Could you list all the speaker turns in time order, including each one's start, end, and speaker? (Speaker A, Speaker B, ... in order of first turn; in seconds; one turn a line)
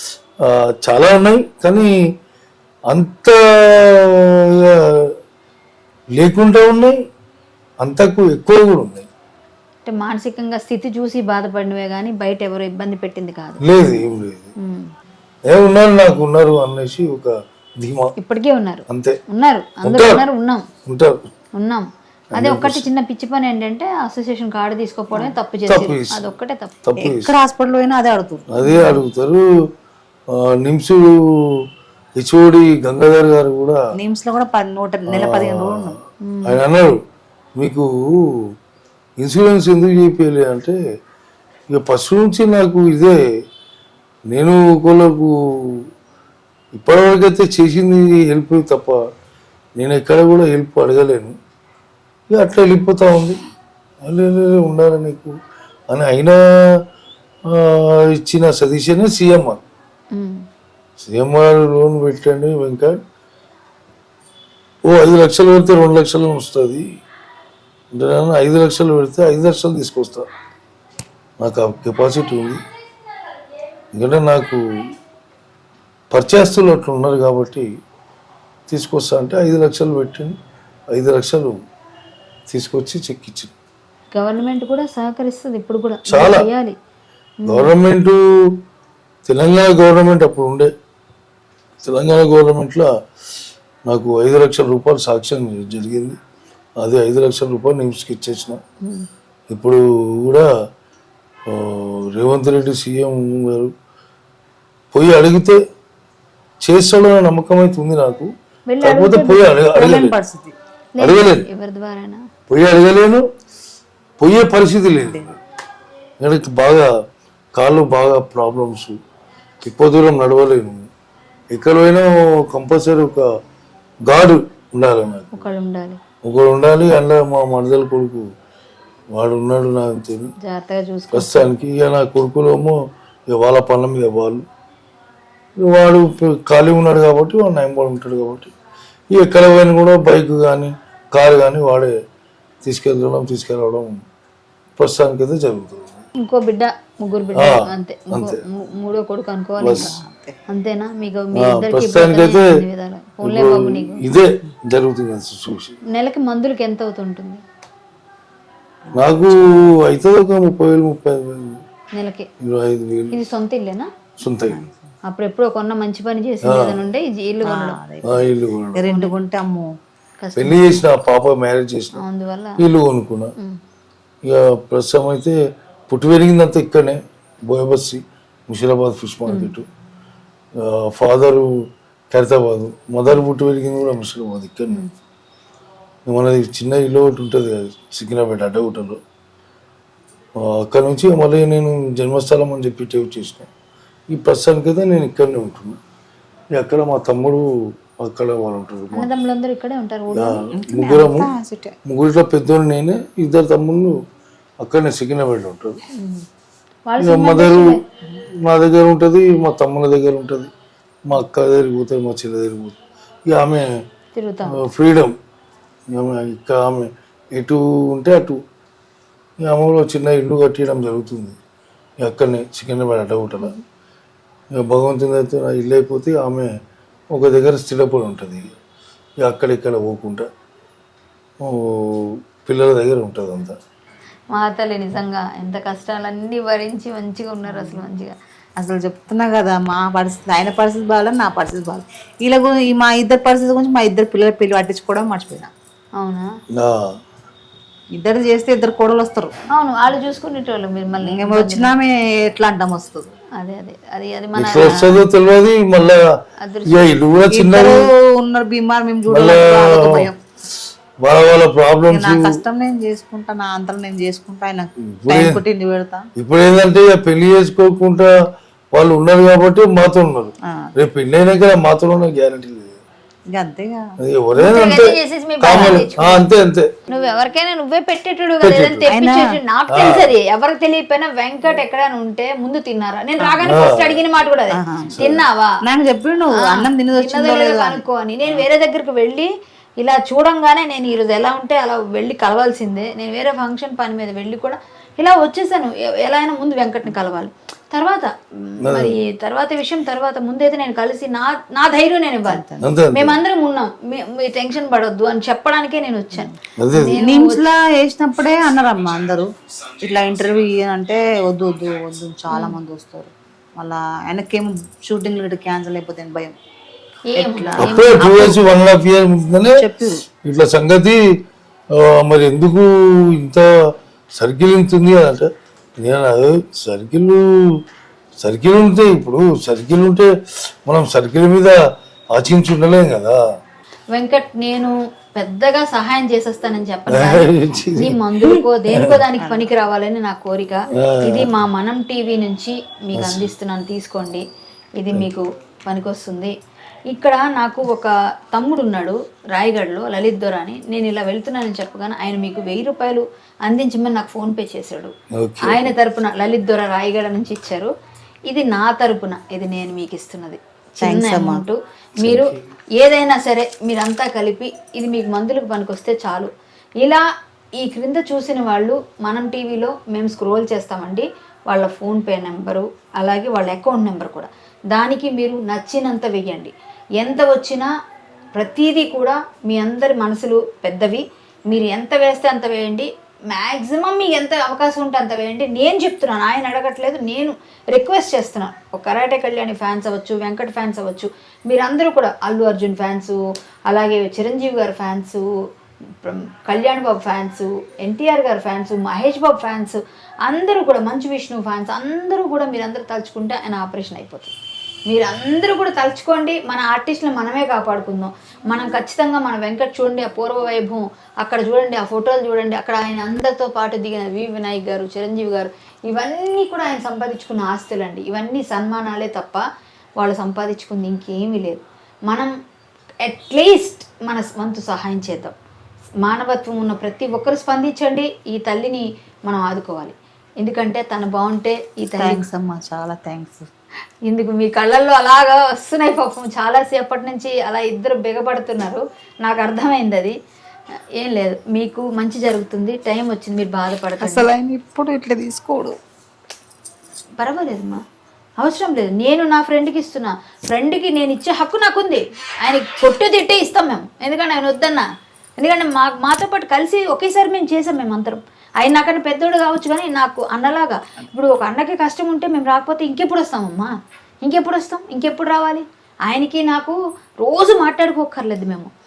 Speaker A: 0.5-1.9
Speaker A: 2.9-4.7
Speaker A: 6.2-6.9
Speaker A: 7.8-9.1
Speaker B: 9.8-13.6
Speaker A: 13.6-14.5
Speaker B: 14.6-14.9
Speaker A: 15.5-18.1
Speaker B: 18.2-20.6
Speaker A: 18.9-19.2
Speaker A: 19.8-20.2
Speaker A: 20.9-21.2
Speaker B: 21.6-26.7
Speaker A: 22.3-22.9
Speaker A: 25.7-26.3
Speaker A: 26.8-27.3
Speaker C: 27.0-28.6
Speaker A: 28.5-29.5
Speaker A: 30.3-31.6
Speaker A: 32.2-33.8
Speaker C: 34.0-36.0
Speaker A: 35.1-37.0
Speaker B: 36.2-36.6
Speaker A: 37.6-38.2
Speaker A: 39.2-40.8
Speaker A: 41.7-43.2
Speaker A: 44.3-45.7
Speaker A: 46.7-49.0
Speaker A: 49.8-51.4
Speaker A: 52.3-53.4
Speaker A: 54.0-55.4
Speaker A: 55.9-56.4
Speaker A: 57.5-59.6
Speaker B: 60.1-60.4
Speaker A: 61.0-63.0
Speaker A: 64.8-66.8
Speaker A: 67.9-70.2
Speaker A: 71.4-72.6
Speaker A: 73.9-74.6
Speaker A: 76.1-77.7
Speaker A: 78.7-80.3
Speaker A: 80.9-81.5
Speaker A: 82.5-83.5
Speaker B: 84.1-86.7
Speaker A: 86.1-86.4
Speaker B: 87.4-87.7
Speaker A: 87.5-88.2
Speaker A: 89.2-90.7
Speaker A: 91.8-92.9
Speaker A: 93.9-96.2
Speaker A: 96.8-98.6
Speaker A: 99.5-100.5
Speaker A: 101.5-103.7
Speaker A: 104.9-105.6
Speaker A: 106.6-108.3
Speaker B: 108.7-109.5
Speaker A: 108.8-110.2
Speaker C: 109.7-110.5
Speaker B: 111.0-112.2
Speaker A: 111.0-111.4
Speaker A: 112.5-113.2
Speaker A: 114.2-115.3
Speaker C: 115.0-115.3
Speaker A: 116.2-116.9
Speaker A: 117.5-119.0
Speaker A: 119.6-120.9
Speaker A: 121.5-123.2
Speaker A: 124.1-125.4
Speaker B: 125.3-126.0
Speaker A: 126.2-128.2
Speaker A: 129.1-130.3
Speaker B: 130.4-131.5
Speaker A: 131.1-132.8
Speaker A: 133.3-134.4
Speaker A: 135.6-138.5
Speaker A: 139.1-141.9
Speaker A: 142.6-144.0
Speaker A: 144.8-146.0
Speaker B: 146.2-149.9
Speaker A: 148.1-148.4
Speaker A: 149.6-149.9
Speaker C: 149.7-150.4
Speaker B: 150.5-154.0
Speaker A: 151.4-152.5
Speaker A: 153.2-155.8
Speaker B: 155.9-157.4
Speaker C: 158.9-159.7
Speaker A: 158.9-161.6
Speaker B: 161.9-162.3
Speaker A: 162.4-163.2
Speaker B: 163.1-163.9
Speaker A: 164.2-164.6
Speaker C: 164.5-164.8
Speaker B: 165.1-167.8
Speaker A: 166.4-166.8
Speaker C: 167.4-169.7
Speaker A: 168.0-168.9
Speaker B: 168.9-169.1
Speaker B: 170.2-170.8
Speaker A: 170.3-172.0
Speaker B: 172.0-172.6
Speaker A: 172.6-173.3
Speaker A: 174.2-175.3
Speaker A: 175.9-179.7
Speaker B: 179.3-179.5
Speaker A: 180.6-181.5
Speaker A: 182.1-184.8
Speaker A: 186.1-189.0
Speaker A: 190.4-193.5
Speaker A: 194.1-195.8
Speaker A: 196.6-199.1
Speaker B: 198.9-200.4
Speaker A: 200.1-201.3
Speaker C: 200.5-201.8
Speaker A: 201.8-203.9
Speaker A: 204.6-205.8
Speaker B: 205.9-206.2
Speaker B: 206.8-207.8
Speaker A: 207.0-207.8
Speaker A: 208.4-210.5
Speaker A: 211.0-212.8
Speaker A: 213.3-213.7
Speaker B: 214.1-214.6
Speaker A: 214.5-215.1
Speaker A: 215.9-218.4
Speaker A: 219.4-221.3
Speaker A: 222.0-223.5
Speaker A: 224.6-226.5
Speaker A: 227.1-228.5
Speaker A: 229.2-230.3
Speaker A: 231.4-233.6
Speaker B: 234.3-238.1
Speaker C: 237.5-237.8
Speaker C: 238.6-245.5
Speaker B: 246.0-246.3
Speaker C: 247.9-249.3
Speaker B: 249.5-251.7
Speaker C: 251.0-253.1
Speaker B: 253.4-254.9
Speaker A: 254.3-256.0
Speaker C: 254.6-254.9
Speaker B: 256.4-256.9
Speaker A: 256.7-257.8
Speaker C: 257.3-260.2
Speaker A: 259.1-260.1
Speaker A: 261.0-262.4
Speaker C: 261.9-266.0
Speaker A: 264.8-265.4
Speaker A: 266.2-268.1
Speaker A: 268.7-272.8
Speaker C: 273.3-273.9
Speaker A: 274.0-276.7
Speaker B: 274.4-276.3
Speaker C: 275.5-275.8
Speaker B: 276.9-285.6
Speaker A: 278.4-278.9
Speaker C: 278.9-279.3
Speaker A: 279.7-280.1
Speaker A: 283.4-284.0
Speaker C: 284.5-284.9
Speaker A: 284.9-285.2
Speaker C: 285.6-288.4
Speaker B: 286.6-307.4
Speaker A: 298.6-298.9
Speaker C: 302.3-302.7
Speaker A: 302.6-303.2
Speaker A: 306.6-307.0
Speaker C: 306.9-309.3
Speaker C: 309.8-316.3
Speaker B: 312.3-312.6
Speaker B: 317.1-318.3
Speaker C: 317.2-318.4
Speaker A: 317.6-319.6
Speaker C: 319.5-320.0
Speaker A: 320.2-321.0
Speaker A: 321.8-323.5
Speaker A: 324.2-325.3
Speaker A: 325.8-327.2
Speaker A: 328.2-330.1
Speaker A: 330.6-331.6
Speaker A: 332.1-333.2
Speaker B: 333.9-344.2
Speaker A: 336.9-339.0
Speaker C: 339.2-339.5
Speaker A: 340.8-341.3
Speaker A: 342.9-343.3
Speaker B: 344.8-346.3
Speaker B: 346.9-354.9
Speaker A: 355.1-355.7
Speaker B: 355.4-357.7
Speaker B: 358.3-366.3
Speaker C: 360.8-361.5
Speaker A: 362.0-362.3
Speaker B: 367.6-377.7
Speaker B: 378.4-393.2
Speaker B: 393.7-395.2
Speaker B: 396.0-404.3
Speaker B: 404.9-419.4
Speaker B: 420.0-422.3
Speaker B: 423.1-425.3
Speaker B: 426.0-432.2
Speaker C: 432.0-433.5
Speaker B: 434.1-440.1
Speaker B: 441.0-444.3
Speaker C: 444.0-445.7
Speaker B: 447.2-447.8
Speaker B: 448.4-454.9
Speaker B: 455.4-463.7
Speaker B: 464.2-468.7